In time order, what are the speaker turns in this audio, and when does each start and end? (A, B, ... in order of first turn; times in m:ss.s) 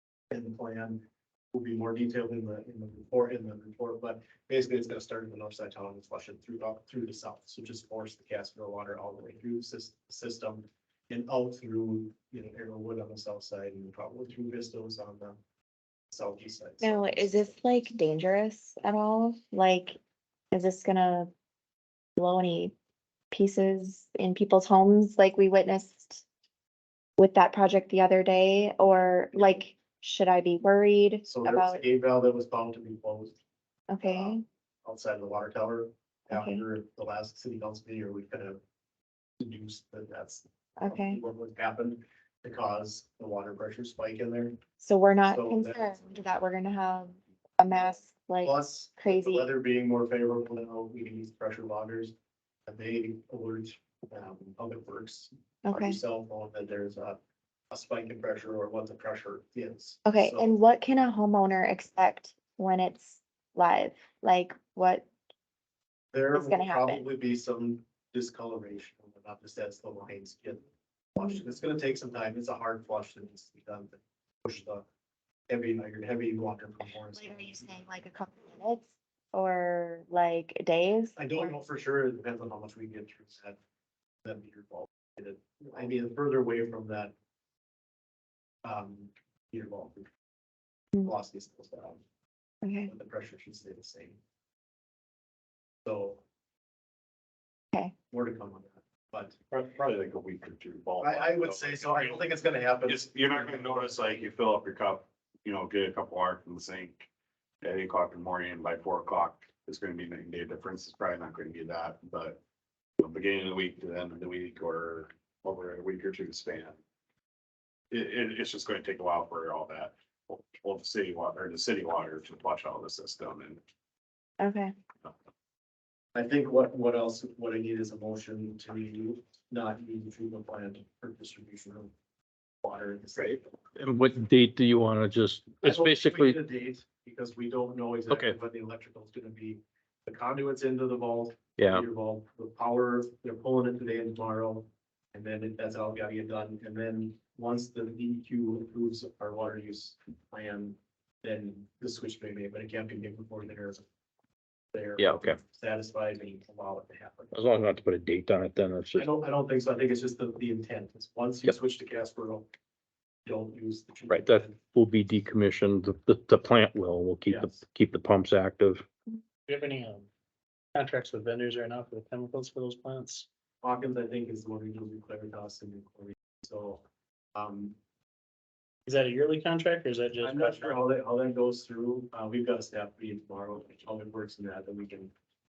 0:00.3-0:15.4 A
0:16.1-0:17.5 A
0:16.8-0:20.0 B
0:20.5-0:21.3 B
0:22.2-0:22.7 B
0:23.3-0:26.2 B
0:27.2-0:31.8 B
0:31.2-0:33.4 A
0:33.9-0:34.4 B
0:34.0-0:38.6 A
0:36.3-0:36.6 B
0:39.4-0:44.6 A
0:40.8-0:41.2 B
0:44.8-0:49.4 B
0:45.3-0:45.9 A
0:48.4-0:52.1 A
0:52.7-0:57.2 A
0:55.6-0:56.0 B
0:57.7-1:00.5 A
1:00.0-1:05.1 B
1:06.1-1:14.8 A
1:06.3-1:07.0 B
1:15.5-1:17.6 A
1:17.1-1:21.5 B
1:21.2-1:23.6 A
1:24.2-1:27.1 A
1:28.6-1:30.1 A
1:31.0-1:32.0 A
1:32.6-1:32.9 B
1:32.8-1:34.2 A
1:35.8-1:36.2 A
1:38.1-1:40.0 A
1:39.8-1:42.2 C
1:41.0-1:44.2 A
1:42.8-1:47.1 C
1:47.6-1:52.4 C
1:53.0-1:56.8 C
1:57.9-2:03.6 C
2:04.4-2:04.7 B
2:06.1-2:11.9 A
2:12.6-2:13.4 A
2:13.2-2:16.4 D
2:15.6-2:33.8 A
2:18.1-2:18.4 D
2:21.6-2:21.8 D
2:34.7-2:37.4 A
2:35.0-2:35.4 D
2:37.3-2:39.1 D
2:39.0-2:42.5 A
2:43.2-2:44.6 A
2:44.1-2:48.8 D
2:47.2-2:47.6 A
2:49.5-2:50.1 E
2:50.7-2:53.2 E
2:53.6-2:56.8 A
2:57.3-2:57.8 A
2:58.8-3:00.9 E
3:00.2-3:05.1 A